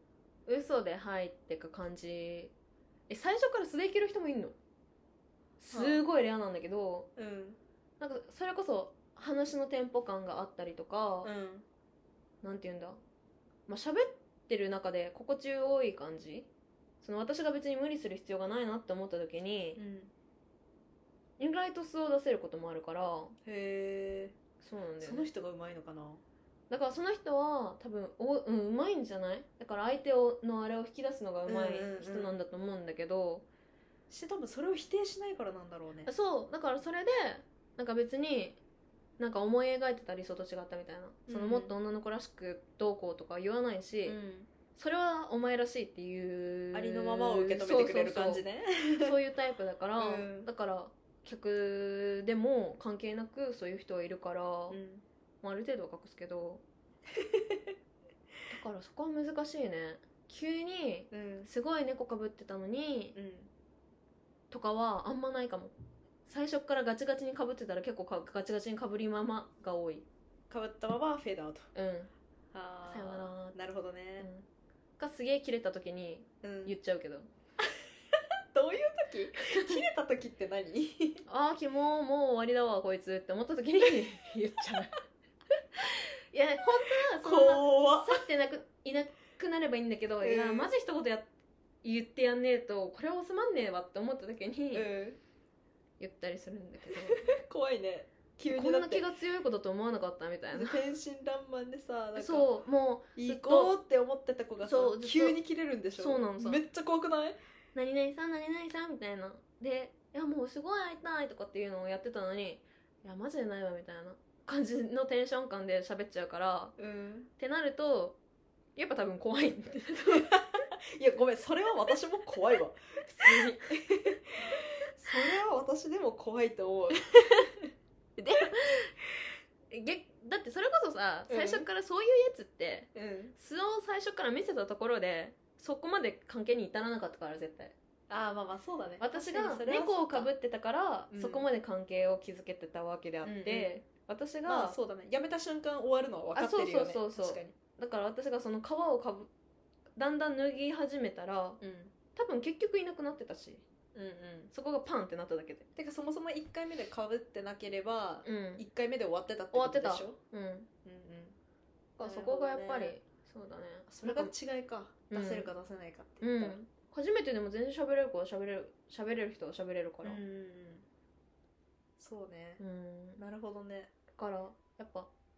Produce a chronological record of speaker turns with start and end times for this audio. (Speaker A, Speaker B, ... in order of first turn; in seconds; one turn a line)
Speaker A: 0.5-2.5
Speaker A: 3.1-4.6
Speaker A: 5.6-7.1
Speaker B: 5.7-6.0
Speaker B: 7.2-7.6
Speaker A: 8.0-11.3
Speaker B: 11.2-11.7
Speaker A: 12.4-13.0
Speaker A: 13.7-16.5
Speaker A: 17.0-19.8
Speaker B: 19.8-20.1
Speaker A: 21.4-23.4
Speaker B: 23.4-24.4
Speaker A: 24.6-25.3
Speaker B: 25.0-26.2
Speaker A: 26.7-33.5
Speaker B: 31.5-32.4
Speaker B: 34.1-36.1
Speaker A: 36.1-38.6
Speaker A: 39.2-44.2
Speaker B: 41.3-41.7
Speaker B: 44.1-44.5
Speaker A: 44.8-48.4
Speaker B: 46.7-49.2
Speaker A: 49.0-54.8
Speaker B: 50.0-50.5
Speaker B: 54.7-55.0
Speaker A: 55.4-56.6
Speaker B: 57.1-57.7
Speaker A: 58.5-63.2
Speaker B: 61.1-61.5
Speaker B: 63.1-63.5
Speaker A: 64.5-65.7
Speaker A: 66.3-70.1
Speaker B: 70.5-71.7
Speaker A: 71.8-72.1
Speaker B: 72.5-74.3
Speaker A: 72.9-73.6
Speaker A: 74.2-74.5
Speaker A: 75.0-77.3
Speaker B: 76.4-76.8
Speaker B: 77.6-81.2
Speaker A: 79.4-79.8
Speaker A: 81.3-85.0
Speaker A: 85.9-91.3
Speaker B: 87.2-88.2
Speaker B: 90.2-90.7
Speaker A: 91.8-94.9
Speaker B: 94.7-95.2
Speaker A: 96.0-97.4
Speaker B: 96.9-99.1
Speaker A: 98.5-100.8
Speaker B: 100.5-102.5
Speaker A: 102.2-103.8
Speaker B: 103.2-107.4
Speaker A: 104.6-105.4
Speaker A: 106.0-106.6
Speaker A: 107.8-116.8
Speaker B: 116.8-117.3
Speaker A: 117.4-118.2
Speaker A: 118.8-120.3
Speaker B: 120.1-127.7
Speaker A: 123.0-123.8
Speaker A: 128.2-129.0
Speaker A: 129.7-137.8
Speaker B: 131.3-131.7
Speaker B: 132.9-133.3
Speaker B: 138.1-140.3
Speaker A: 139.0-144.8
Speaker B: 141.1-141.5
Speaker B: 143.2-143.8
Speaker B: 144.5-147.6
Speaker A: 146.3-149.3
Speaker A: 150.0-151.6
Speaker B: 151.6-151.9
Speaker A: 152.2-153.7
Speaker B: 153.9-154.5
Speaker A: 154.5-155.7
Speaker B: 155.8-160.2
Speaker A: 158.2-158.7
Speaker A: 159.5-160.7
Speaker B: 160.8-161.4
Speaker A: 162.0-164.3
Speaker B: 162.0-163.0
Speaker B: 163.9-166.6
Speaker A: 165.1-165.5
Speaker A: 166.2-170.2
Speaker B: 170.0-170.9
Speaker B: 172.0-172.6
Speaker A: 172.6-173.2
Speaker B: 173.2-173.9
Speaker A: 174.2-175.1